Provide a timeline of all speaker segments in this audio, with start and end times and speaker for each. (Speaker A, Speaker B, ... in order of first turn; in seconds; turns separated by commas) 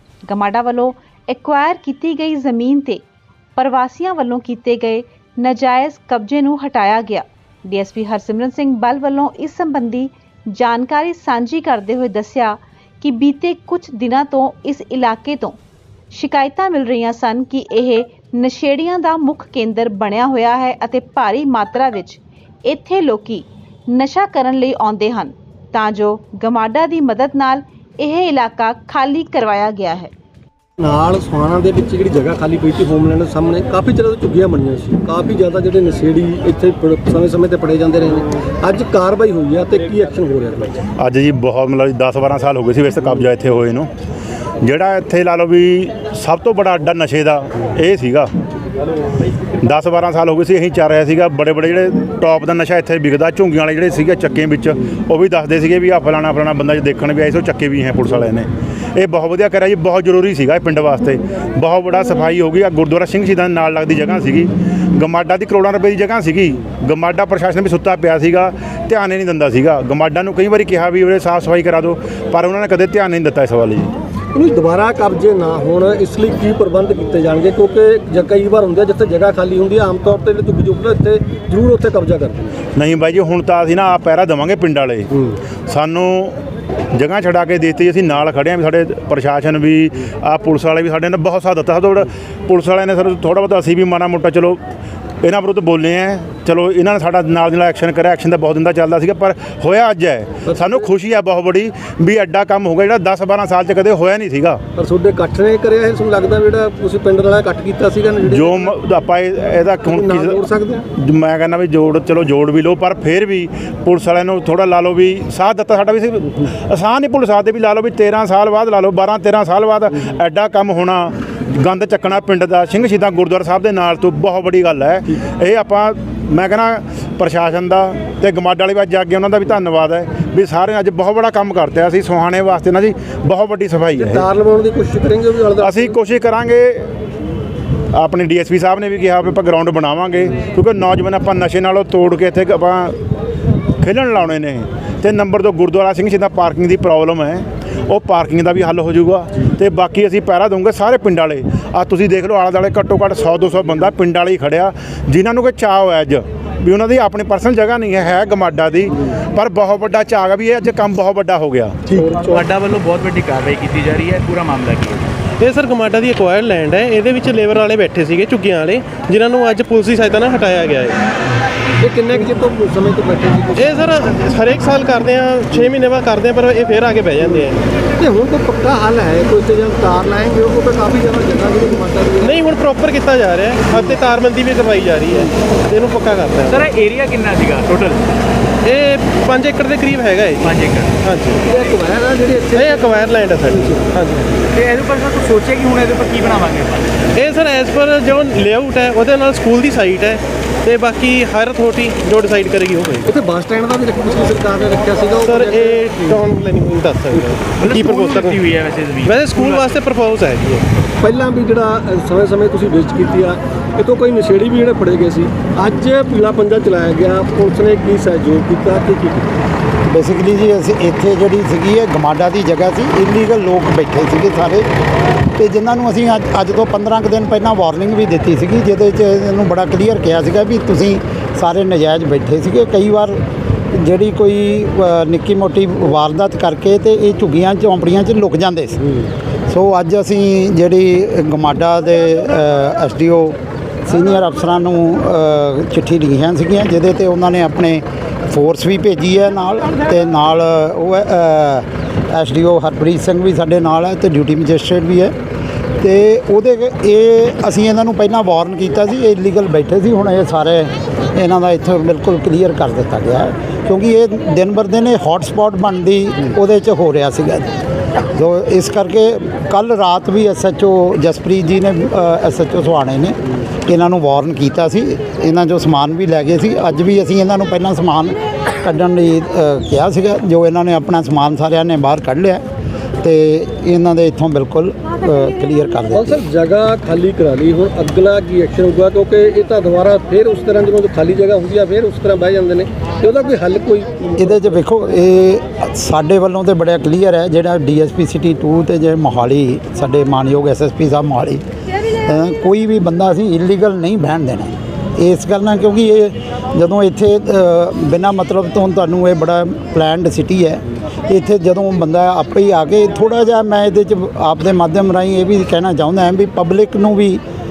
Speaker A: 0.3-3.0, Speaker A: 3.6-15.6, Speaker A: 16.1-30.1, Speaker B: 30.8-40.8, Speaker C: 41.0-43.9, Speaker C: 44.6-48.3, Speaker C: 49.6-73.9, Speaker B: 74.3-82.6, Speaker C: 82.8-85.1, Speaker C: 85.7-86.4, Speaker C: 86.9-94.6, Speaker C: 95.2-104.6, Speaker B: 100.5-100.8, Speaker B: 104.8-108.8, Speaker C: 108.3-134.3, Speaker B: 109.9-110.9, Speaker B: 134.0-135.9, Speaker C: 135.6-137.0, Speaker C: 137.9-143.0, Speaker C: 143.8-162.0, Speaker B: 161.9-162.3, Speaker D: 162.2-165.1, Speaker E: 165.4-171.0, Speaker B: 171.8-173.8, Speaker E: 173.6-177.7, Speaker B: 178.0-182.4, Speaker E: 182.2-186.7, Speaker D: 186.5-188.0, Speaker E: 188.6-191.4, Speaker D: 190.4-190.9, Speaker B: 191.4-193.9, Speaker E: 192.5-194.4, Speaker D: 194.5-197.1, Speaker E: 197.1-203.1, Speaker B: 203.1-206.1, Speaker E: 205.2-208.5, Speaker D: 207.6-209.7, Speaker E: 209.0-210.6, Speaker B: 211.0-219.3, Speaker F: 219.9-224.7, Speaker F: 225.3-255.1, Speaker F: 255.8-267.6, Speaker F: 268.1-282.4, Speaker F: 283.0-286.2, Speaker B: 285.9-294.3, Speaker F: 294.2-301.4, Speaker F: 302.0-317.2